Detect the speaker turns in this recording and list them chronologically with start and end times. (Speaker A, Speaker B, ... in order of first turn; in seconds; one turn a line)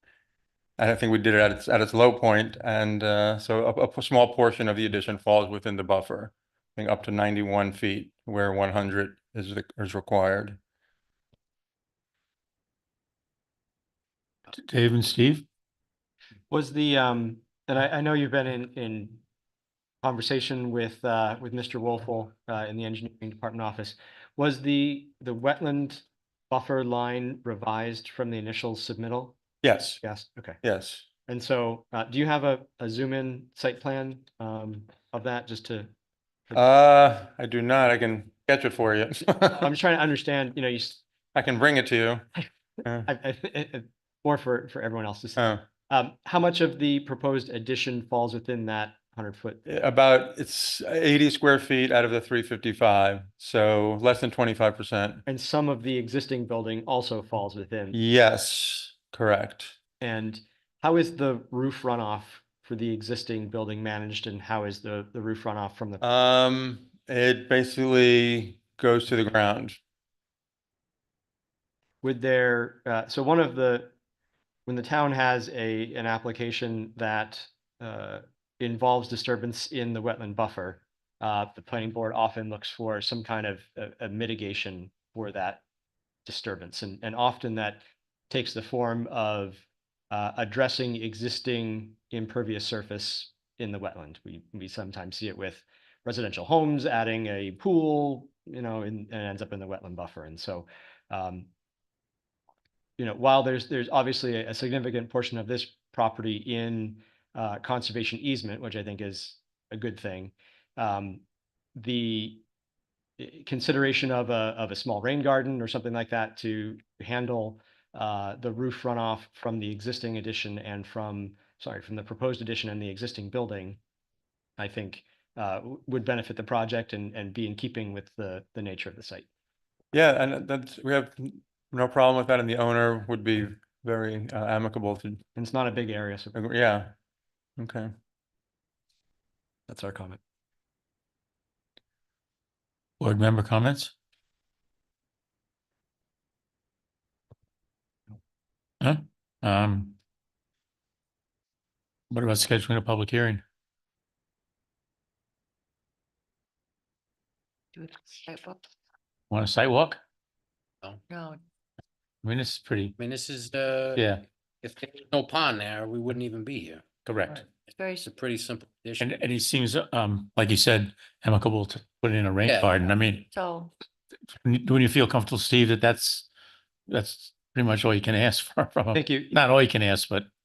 Speaker A: 0.8-10.6
Speaker B: 14.5-15.4
Speaker C: 16.5-19.2
Speaker C: 20.0-29.4
Speaker A: 29.6-30.0
Speaker C: 30.0-30.6
Speaker A: 30.6-31.1
Speaker C: 31.3-35.9
Speaker A: 36.5-39.7
Speaker C: 39.6-41.0
Speaker A: 41.3-42.3
Speaker C: 43.0-49.6
Speaker A: 45.4-45.6
Speaker A: 49.7-55.2
Speaker C: 55.3-58.0
Speaker A: 57.9-59.7
Speaker C: 60.0-66.0
Speaker A: 66.0-69.8
Speaker C: 72.0-73.9
Speaker C: 74.7-85.6
Speaker C: 86.3-101.5
Speaker C: 103.0-111.2
Speaker C: 111.8-112.4
Speaker C: 113.2-123.8
Speaker C: 124.6-129.2
Speaker A: 129.9-135.2
Speaker C: 135.4-136.4
Speaker A: 136.3-136.9
Speaker A: 137.6-137.9
Speaker C: 139.7-140.2
Speaker B: 143.0-143.9
Speaker B: 148.8-150.0
Speaker B: 152.1-153.4
Speaker D: 157.7-158.6
Speaker B: 159.3-160.0
Speaker D: 161.1-161.4
Speaker B: 162.2-163.0
Speaker E: 163.0-164.0
Speaker B: 164.0-164.2
Speaker E: 164.6-166.8
Speaker B: 167.1-167.4
Speaker D: 167.7-168.1
Speaker E: 167.9-169.2
Speaker B: 169.0-173.3
Speaker E: 172.4-172.9
Speaker D: 173.3-173.7
Speaker B: 174.4-176.3
Speaker B: 176.9-180.3
Speaker C: 178.9-179.3